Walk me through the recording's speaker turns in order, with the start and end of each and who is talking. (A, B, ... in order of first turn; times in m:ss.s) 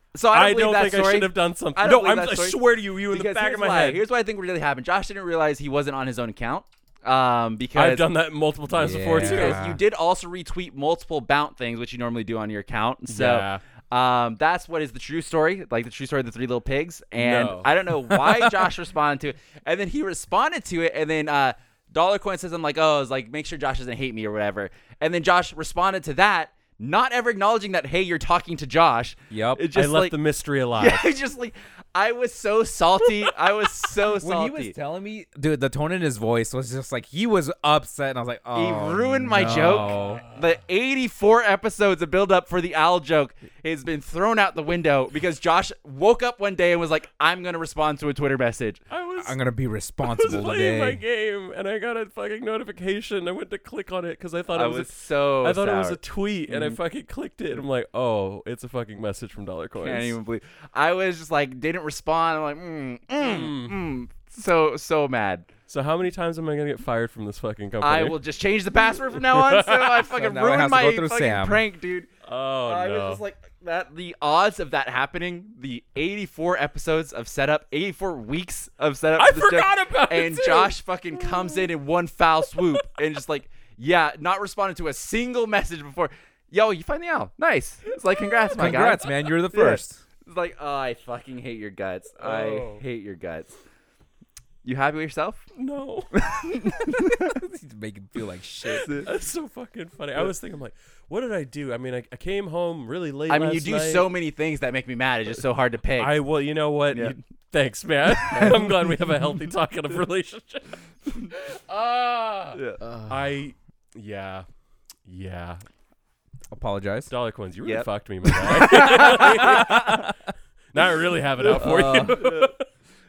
0:00.1-0:02.6 A
0:00.3-0:04.0 B
0:03.1-0:08.1 A
0:07.7-0:09.7 B
0:08.7-0:09.8 C
0:08.8-0:30.2 A
0:13.1-0:13.6 B
0:17.2-0:17.7 B
0:18.1-0:18.5 C
0:29.3-0:29.6 C
0:29.7-0:31.0 B
0:30.7-0:34.7 A
0:34.2-0:40.0 C
0:38.5-0:48.8 A
0:39.5-0:40.4 B
0:48.9-0:49.3 B
0:49.2-0:51.0 C
0:50.0-1:00.2 B
0:54.5-0:56.8 A
0:59.8-1:05.5 A
1:03.2-1:03.8 B
1:05.7-1:08.2 B
1:07.8-1:12.1 A
1:08.9-1:10.1 B
1:10.1-1:11.6 C
1:12.2-1:13.2 B
1:12.6-1:33.5 A
1:19.2-1:21.7 B
1:22.6-1:22.8 B
1:28.1-1:28.7 B
1:28.6-1:30.0 C
1:32.2-1:32.8 B
1:34.6-1:35.4 A
1:35.6-1:36.2 B
1:36.1-1:37.4 A
1:37.0-1:38.9 C
1:38.7-1:39.1 A
1:38.8-1:44.1 B
1:43.3-1:46.2 A
1:46.0-1:54.4 B
1:46.9-1:47.2 A
1:48.2-1:48.6 A
1:52.5-1:52.8 A
1:52.8-1:53.2 C
1:55.0-1:55.6 B
1:56.5-1:57.1 C
1:57.1-2:00.1 B
1:57.6-2:00.0 A
1:58.7-2:00.1 C
2:00.7-2:02.6 B
2:01.4-2:02.5 A
2:01.5-2:02.1 C